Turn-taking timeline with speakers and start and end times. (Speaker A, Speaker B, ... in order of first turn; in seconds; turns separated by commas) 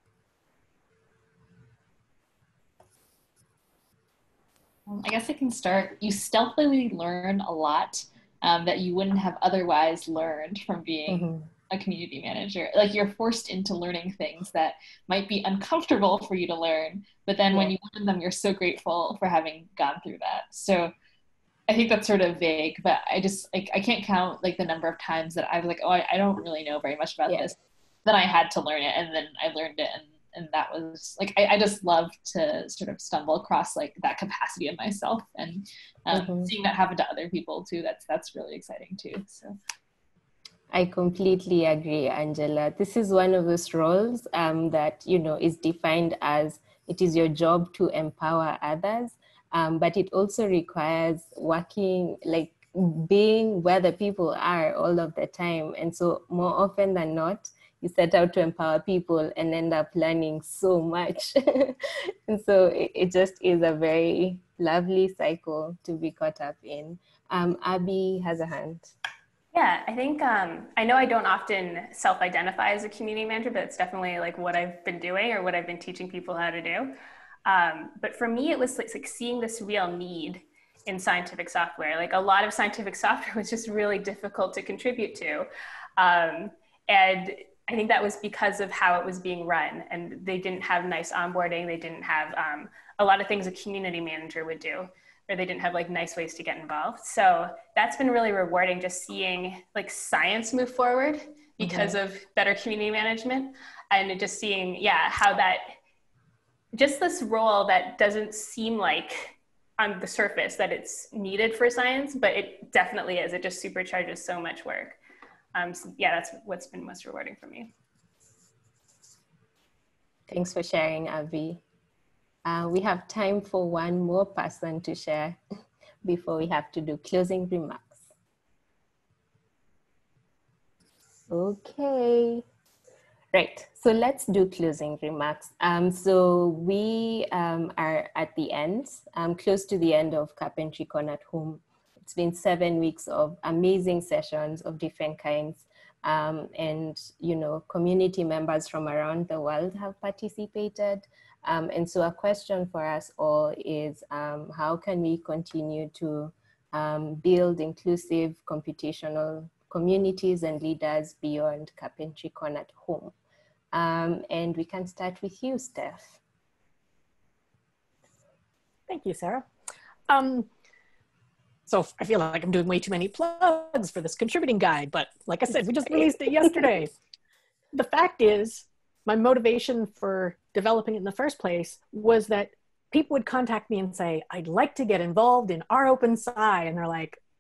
Speaker A: 4.9-20.9, Speaker B: 11.1-11.4, Speaker A: 21.7-39.5, Speaker B: 36.1-36.5, Speaker B: 40.7-68.9, Speaker C: 69.5-105.7, Speaker B: 101.6-101.9, Speaker C: 106.7-115.0, Speaker C: 115.5-117.7, Speaker B: 120.3-121.6, Speaker B: 122.4-125.4, Speaker B: 126.0-128.0, Speaker B: 131.3-132.4, Speaker B: 133.3-163.1, Speaker B: 163.7-166.2, Speaker D: 168.9-169.5, Speaker D: 170.1-170.5, Speaker D: 171.7-176.9, Speaker D: 177.7-187.2